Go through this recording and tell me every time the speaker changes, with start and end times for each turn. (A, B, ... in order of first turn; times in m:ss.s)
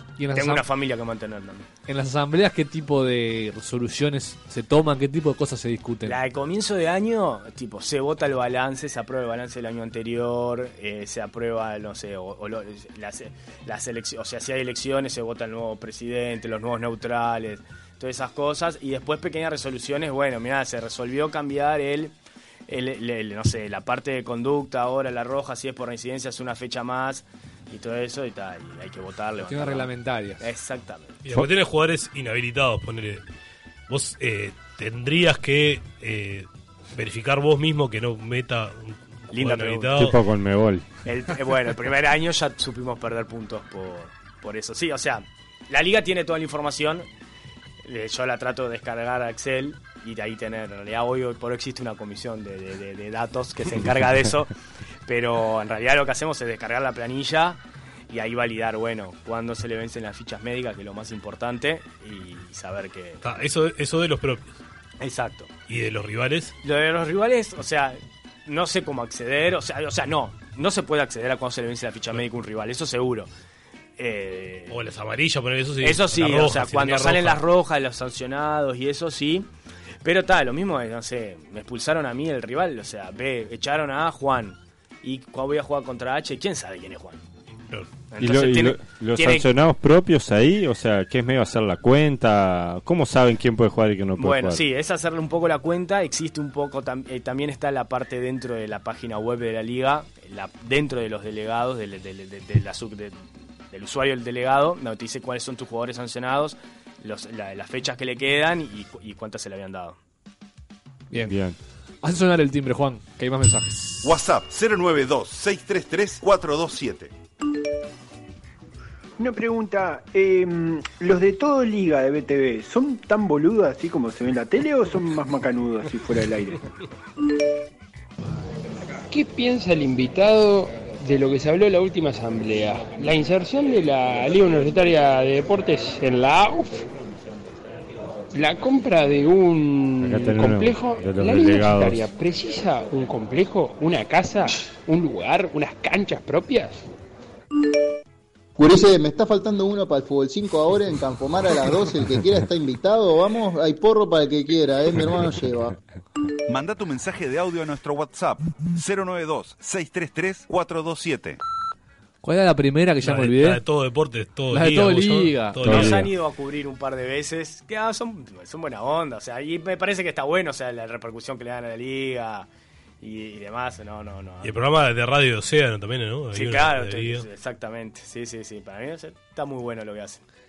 0:00.2-0:00.6 A
0:00.3-0:01.7 B
0:01.9-0:06.2 A
0:06.0-0:22.1 B
0:22.7-0:31.2 B
0:29.4-0:30.5 A
0:31.2-0:33.2 C
0:33.9-0:40.1 C
0:39.3-0:40.0 B
0:39.9-0:40.8 D
0:41.0-0:47.1 B
0:47.8-0:54.5 B
0:55.0-1:03.2 B
1:03.2-1:04.6 C
1:05.0-1:05.5 B
1:05.7-1:06.5 C
1:06.6-1:13.3 B
1:14.0-1:14.8 B
1:14.7-1:17.4 C
1:15.8-1:19.5 B
1:20.0-1:27.2 B
1:28.1-1:29.5 B
1:28.2-1:34.6 D
1:34.2-1:50.0 B
1:51.2-1:51.6 D
1:52.0-1:54.1 A
1:54.0-1:57.1 E
1:59.2-2:06.6 F
2:09.1-2:16.8 G
2:18.3-2:26.8 G
2:20.0-2:22.1 D
2:28.6-2:35.8 H
2:36.5-2:41.4 E
2:42.2-2:43.6 A
2:43.0-2:46.1 C
2:44.5-2:45.8 A
2:45.6-2:46.1 D
2:45.7-2:52.5 B
2:53.0-2:54.5 B
2:54.4-2:57.2 C
2:56.3-3:00.2 B